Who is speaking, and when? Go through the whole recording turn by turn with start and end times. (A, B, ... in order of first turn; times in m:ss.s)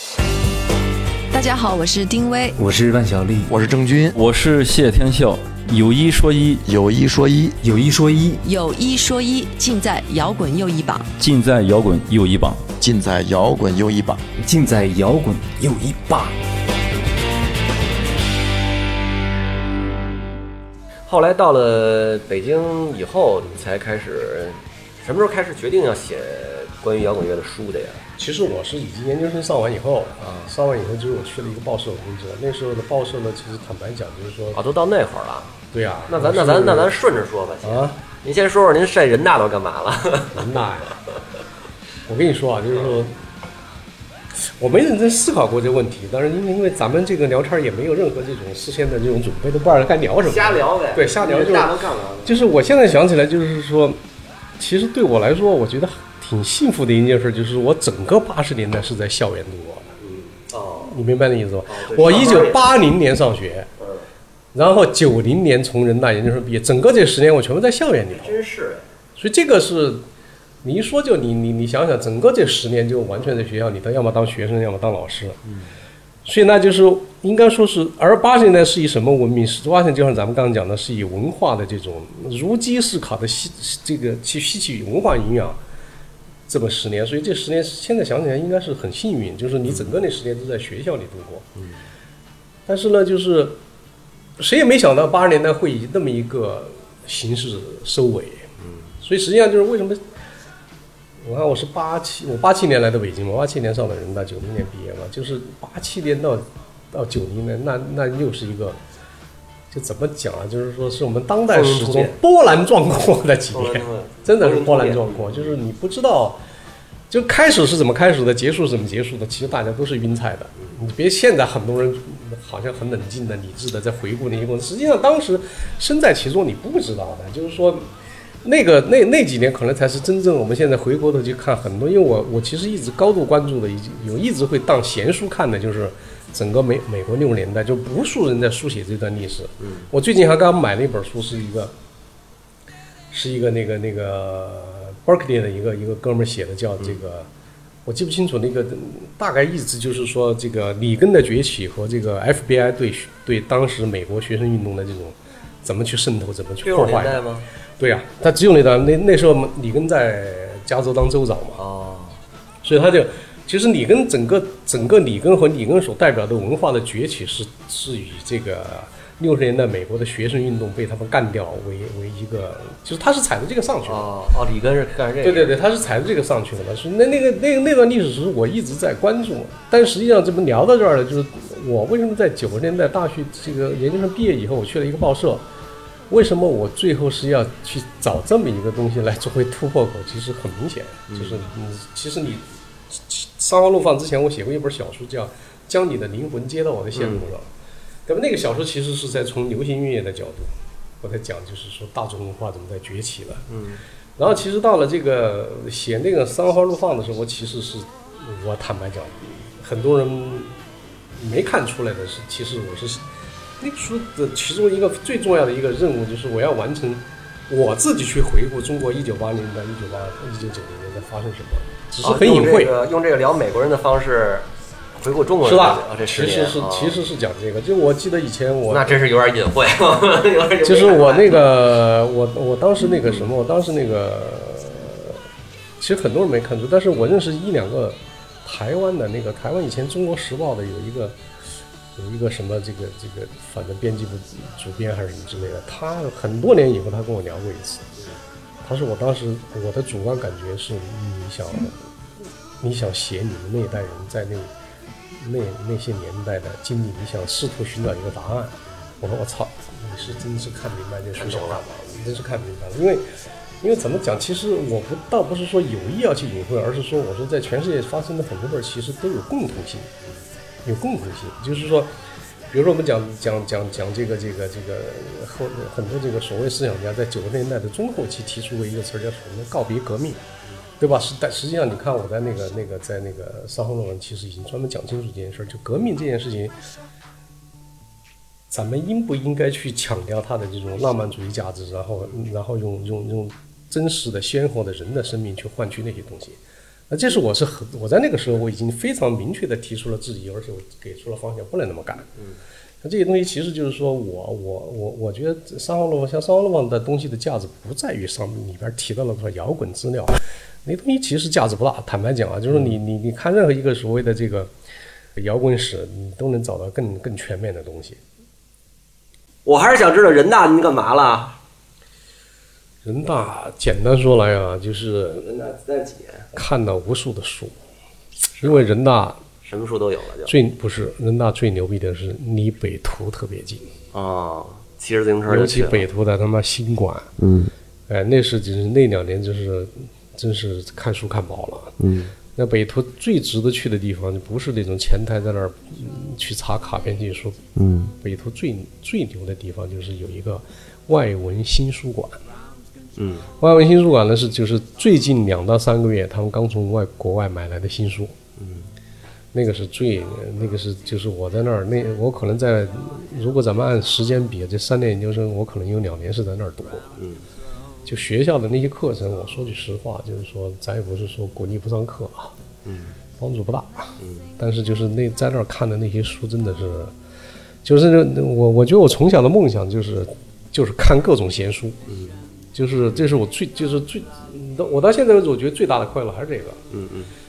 0:01.3-0:02.5 A
0:02.5-0:03.5 B
0:03.5-0:04.1 C
0:04.1-0:06.6 D
0:06.6-0:07.6 C
0:07.6-0:08.4 B
0:08.5-0:11.1 A
0:11.2-0:12.6 D
0:12.8-0:14.2 C
0:14.4-0:16.3 B
0:21.1-0:28.0 E
0:28.2-0:34.6 F
0:30.2-0:30.5 E
0:34.5-0:35.6 E
0:35.7-0:36.9 F
0:36.1-0:40.4 E
0:37.6-0:38.0 F
0:40.3-0:41.0 F
0:42.1-0:43.1 F
0:42.7-0:43.0 E
0:44.4-0:54.0 F
0:50.2-0:52.4 E
0:54.6-1:00.0 F
1:00.0-1:00.9 E
1:00.8-1:03.7 F
1:01.7-1:02.7 E
1:04.5-1:08.4 F
1:08.1-1:08.9 E
1:09.2-1:10.0 F
1:10.6-1:15.4 F
1:16.2-1:25.6 F
1:26.5-1:31.5 F
1:29.6-1:29.9 E
1:32.7-1:33.6 F
1:34.4-1:38.5 F
1:38.6-1:38.9 E
1:39.0-1:40.0 F
1:41.2-1:48.8 F
1:49.7-1:56.4 F
1:51.5-1:52.2 E
1:53.5-1:55.6 E
1:57.1-2:07.9 F
2:08.4-2:21.7 F
2:19.6-2:19.9 E
2:23.1-2:27.3 F
2:27.8-2:37.2 F
2:36.6-2:37.5 E
2:37.8-2:41.6 F
2:41.6-2:42.2 E
2:42.6-2:54.1 F
2:53.8-2:55.6 E
2:55.2-3:05.4 F
3:06.1-3:17.5 F
3:11.1-3:11.4 E
3:16.9-3:17.2 E
3:18.0-3:23.5 F
3:23.5-3:23.8 E
3:24.2-3:30.6 F
3:31.2-3:33.0 F
3:33.6-3:42.7 F
3:42.0-3:47.0 E
3:45.4-3:49.0 F
3:48.7-3:51.4 E
3:50.6-3:55.2 F
3:55.8-4:01.2 F
4:02.0-4:07.9 F
4:08.6-4:11.8 F
4:12.6-4:14.5 F
4:15.1-4:23.0 F
4:21.1-4:21.9 E
4:23.6-4:29.9 F
4:30.6-4:31.9 F
4:32.5-4:40.2 F
4:40.8-4:46.5 F
4:48.5-5:02.1 F
5:02.8-5:14.5 F
5:15.2-5:18.0 F
5:19.4-5:21.4 E
5:22.8-5:25.3 F
5:25.2-5:26.3 E
5:26.3-5:27.5 F
5:28.4-5:29.2 F
5:29.4-5:30.3 E
5:30.3-5:33.7 F
5:33.9-5:35.8 E
5:35.3-5:37.1 F
5:37.2-5:37.5 E
5:37.9-5:41.8 F
5:41.8-5:42.1 E
5:42.3-5:52.2 F
5:47.6-5:47.9 E
5:53.0-5:53.3 E
5:53.4-5:58.2 F
5:58.4-5:58.7 E
5:59.3-6:06.9 F
6:07.0-6:07.2 E
6:07.8-6:12.3 F
6:12.6-6:13.0 E
6:13.2-6:16.9 F
6:17.6-6:21.8 F
6:21.9-6:22.2 E
6:22.5-6:26.6 F
6:26.7-6:27.1 E